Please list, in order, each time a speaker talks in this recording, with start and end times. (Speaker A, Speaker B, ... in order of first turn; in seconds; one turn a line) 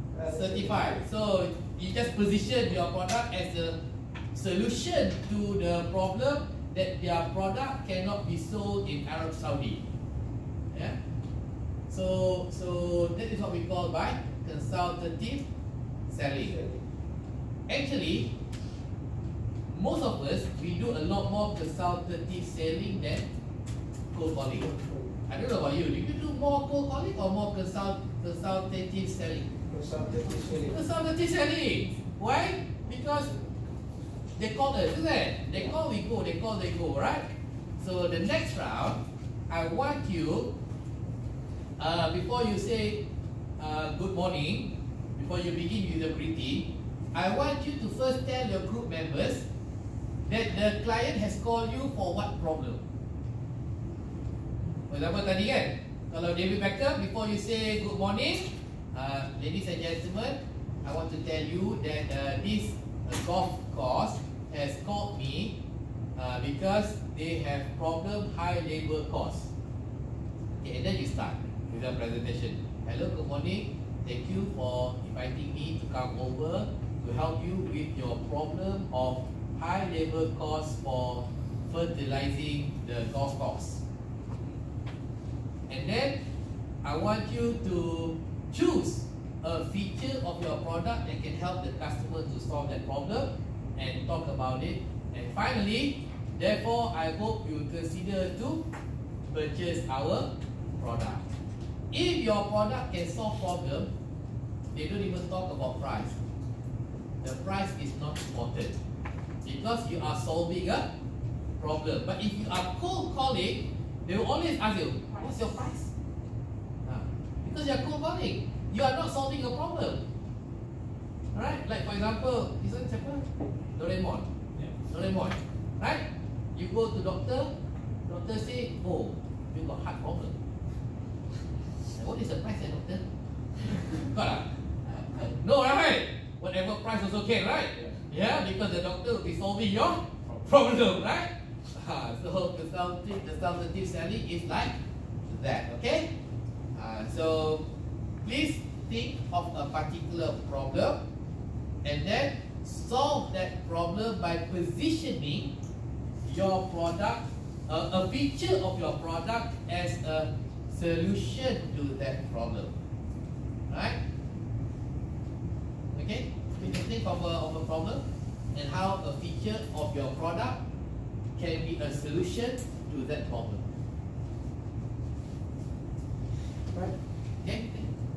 Speaker A: 0.1-1.0
Speaker B: 0.2-3.8
Speaker B: 4.3-9.9
Speaker B: 10.7-11.0
Speaker B: 11.9-15.5
Speaker B: 16.1-16.6
Speaker A: 16.4-16.8
Speaker B: 17.7-18.3
Speaker B: 19.7-23.3
Speaker B: 24.1-24.7
Speaker A: 24.6-25.1
Speaker B: 25.3-29.5
Speaker A: 29.7-30.8
Speaker B: 30.6-33.3
Speaker B: 34.4-40.5
Speaker B: 41.8-43.0
Speaker B: 43.6-49.5
Speaker B: 50.3-52.8
Speaker B: 54.9-65.6
Speaker B: 66.2-69.5
Speaker B: 70.6-83.8
Speaker B: 85.7-86.2
Speaker B: 86.8-98.6
Speaker B: 99.3-101.3
Speaker B: 101.9-103.9
Speaker B: 104.7-106.2
Speaker B: 107.2-108.8
Speaker B: 109.4-110.9
Speaker B: 111.6-115.9
Speaker B: 116.8-120.0
Speaker B: 121.3-127.5
Speaker B: 128.1-130.3
Speaker B: 131.9-133.1
Speaker B: 133.6-144.8
Speaker B: 145.2-146.1
Speaker B: 146.8-147.7
Speaker B: 148.2-151.0
Speaker B: 151.8-155.6
Speaker B: 156.2-162.7
Speaker B: 163.7-164.0
Speaker B: 165.9-168.0
Speaker B: 168.5-170.6
Speaker B: 171.3-173.7
Speaker B: 177.4-177.9